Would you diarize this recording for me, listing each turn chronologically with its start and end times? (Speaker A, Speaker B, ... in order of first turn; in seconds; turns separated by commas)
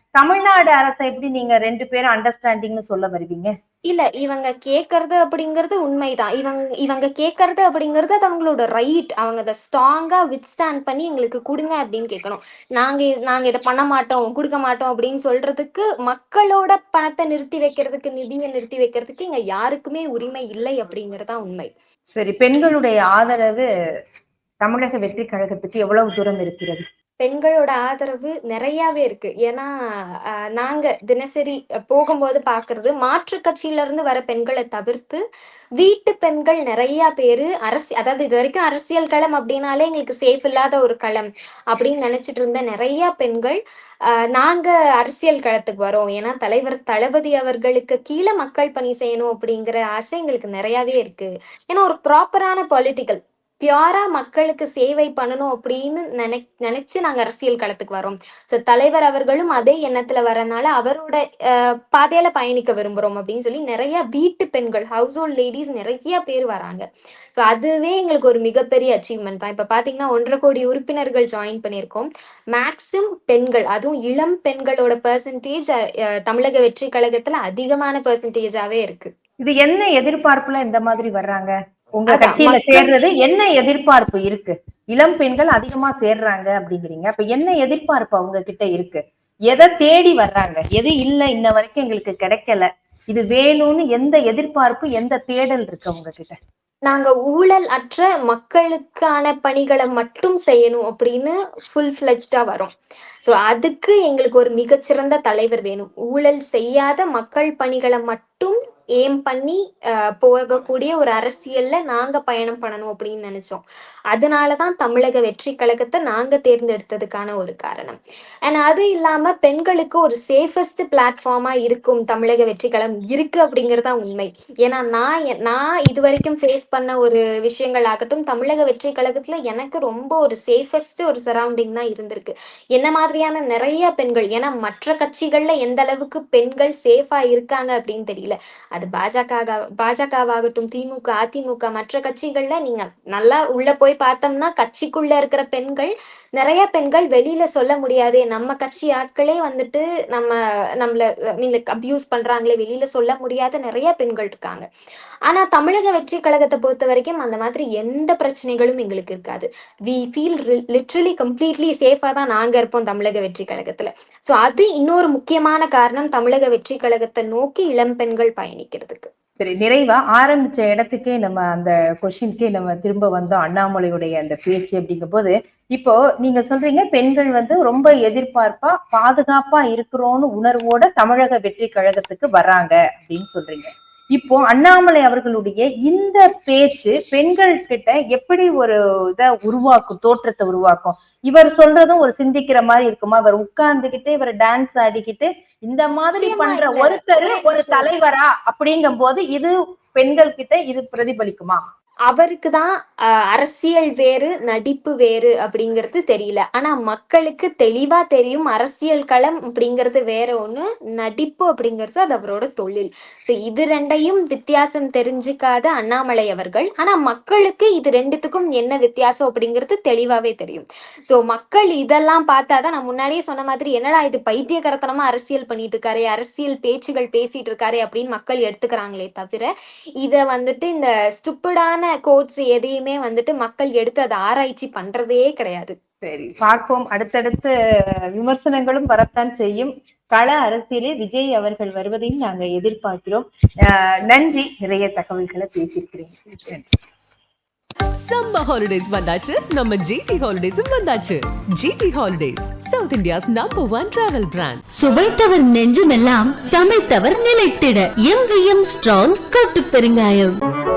Speaker A: 0.2-3.5, Speaker B: 3.9-21.7, Speaker A: 22.1-23.7, Speaker A: 24.6-26.8, Speaker B: 27.2-29.7, Speaker B: 30.3-35.2, Speaker B: 35.8-43.6, Speaker B: 44.3-66.8, Speaker B: 67.4-79.1, Speaker A: 79.4-96.4, Speaker B: 82.1-83.1, Speaker B: 96.9-102.7, Speaker B: 103.2-109.6, Speaker B: 110.2-154.7, Speaker B: 155.3-169.1, Speaker A: 169.4-201.6, Speaker B: 196.1-197.9, Speaker B: 202.1-229.5, Speaker B: 230.0-235.7, Speaker A: 236.0-237.5, Speaker A: 238.1-246.7, Speaker C: 248.0-254.6, Speaker D: 254.7-260.4